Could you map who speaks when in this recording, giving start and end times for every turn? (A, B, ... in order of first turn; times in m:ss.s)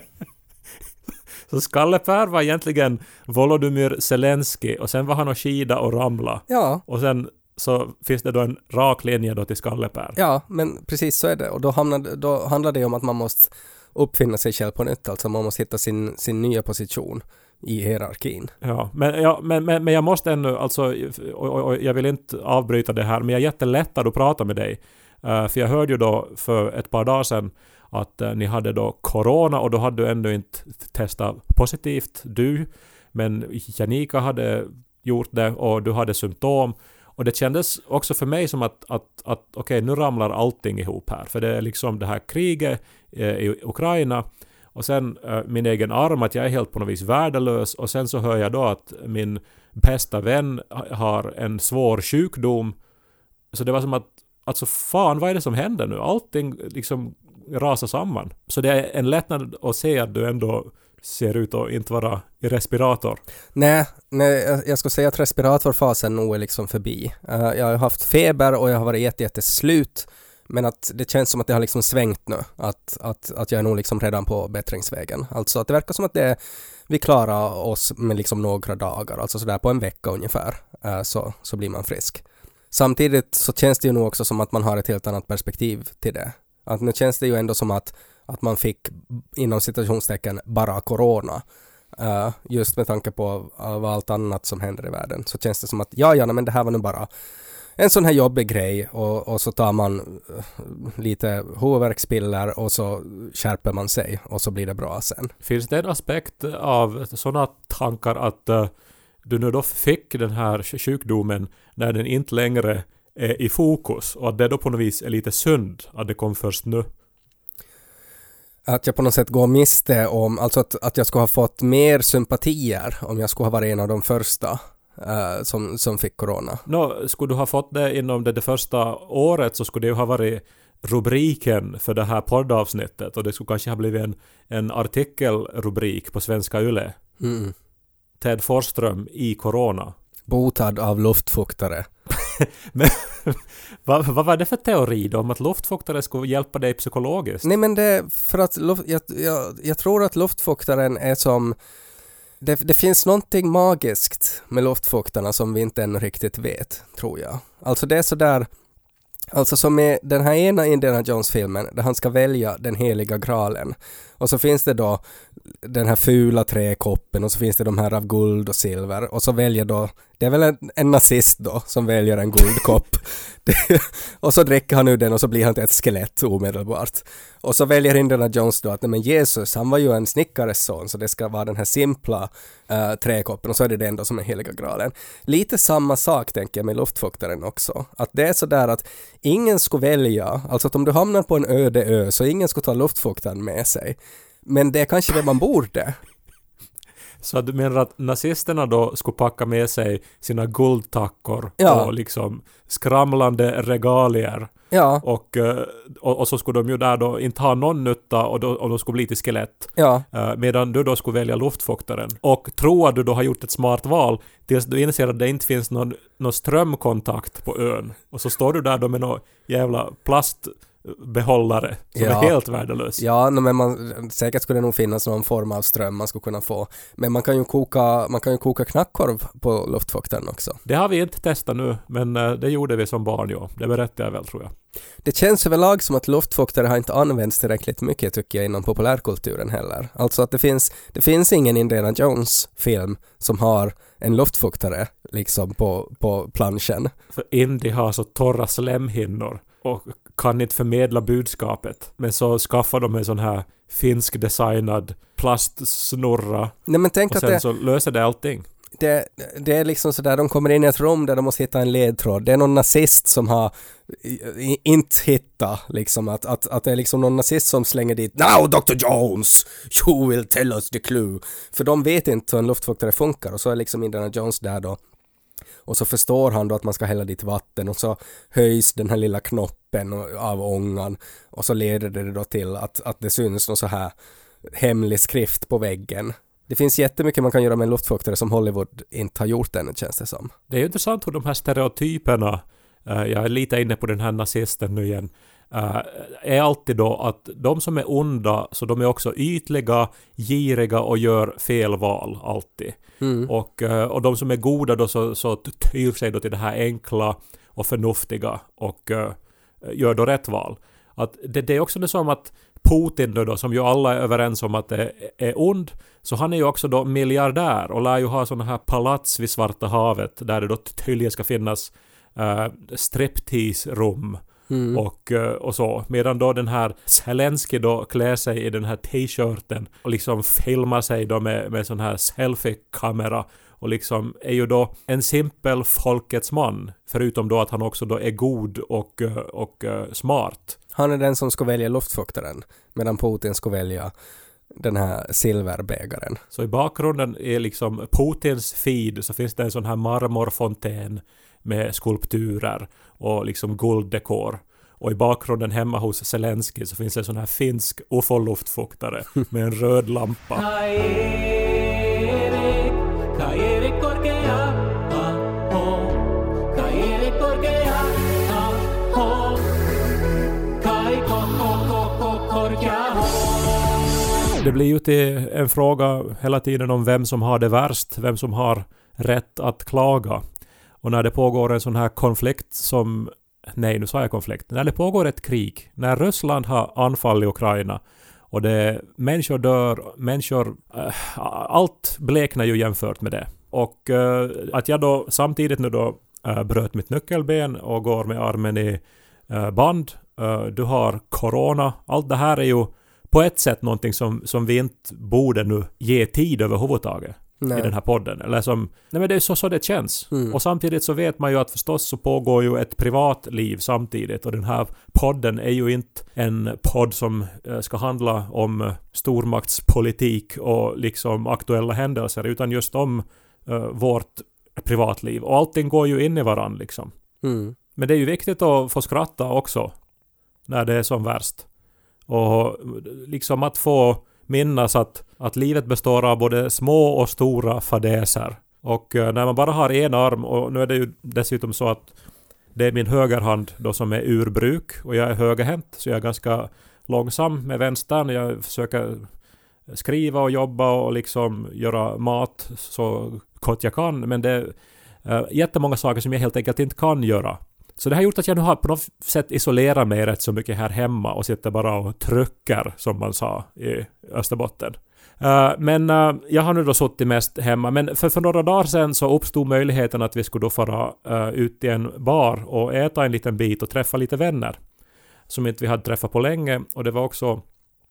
0:01.5-0:10.2 A
0:06.5-0:06.8 B
0:10.2-0:18.5 B
0:18.6-0:52.8 A
0:53.5-1:03.2 A
1:03.5-1:31.4 B
1:31.9-1:37.1 B
1:37.8-1:45.3 B
1:45.4-1:48.7 A
1:49.2-1:56.8 A
1:58.7-2:06.6 B
2:06.6-2:17.0 A
2:17.2-2:17.5 B
2:18.2-2:19.9 A
2:20.3-2:21.9 B
2:22.2-2:27.5 A
2:27.4-2:31.6 B
2:32.4-2:38.5 B
2:39.3-2:45.0 B
2:45.6-3:16.0 B
3:17.2-3:24.5 A
3:21.6-3:21.9 B
3:24.7-3:25.0 B
3:25.0-3:43.0 A
3:29.8-3:30.0 B
3:42.0-3:42.3 B
3:43.0-3:50.6 B
3:50.6-3:54.5 A
3:55.0-4:06.9 B
4:07.1-4:16.5 A
4:16.7-4:17.4 B
4:17.1-4:18.5 A
4:18.8-4:34.8 B
4:35.6-4:43.9 B
4:44.5-4:50.3 B
4:50.5-5:40.6 A
5:03.0-5:03.3 B
5:24.5-5:24.8 B
5:40.7-5:43.9 B
5:44.6-5:46.2 B
5:46.3-6:00.4 A
6:00.3-6:09.6 C
6:10.6-6:13.7 C
6:14.4-6:20.2 A
6:20.8-6:27.8 A
6:28.3-7:06.9 A
6:47.4-6:47.7 B
6:50.1-6:50.4 B
7:07.2-7:07.5 B
7:07.8-7:09.7 A
7:10.5-7:11.4 A
7:12.1-7:21.9 A
7:22.5-7:29.1 A
7:29.7-7:54.6 A
7:55.3-7:57.4 A